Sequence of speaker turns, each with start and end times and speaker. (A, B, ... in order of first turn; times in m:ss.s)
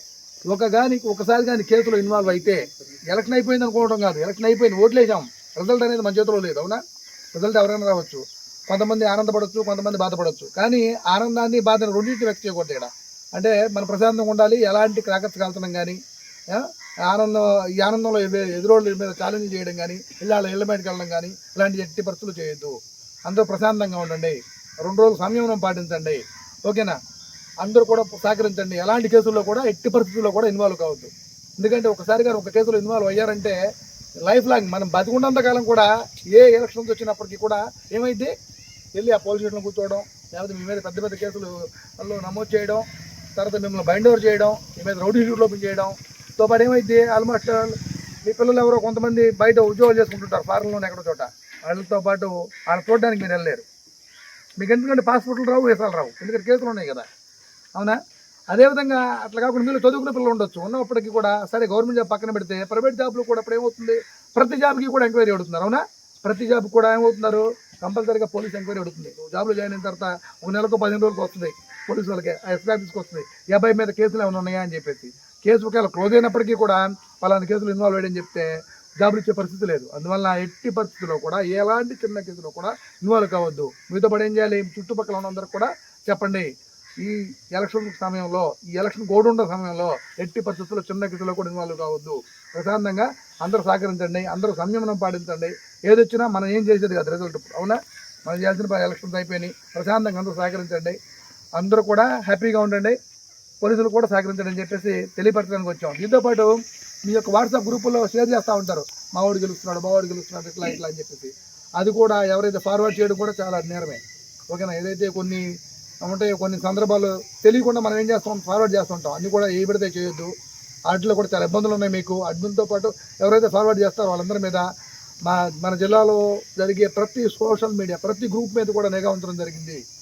0:00.5-0:06.8 A
0:07.3-0:27.0 A
0:27.6-0:33.6 A
0:34.2-0:38.3 A
0:39.0-0:42.8 A
0:43.4-0:53.6 A
0:54.6-0:57.1 A
0:57.8-1:26.5 A
1:27.0-1:41.0 A
1:41.6-1:43.0 A
1:43.6-1:55.4 A
1:56.0-2:00.3 A
2:00.9-2:04.7 A
2:05.3-2:09.8 A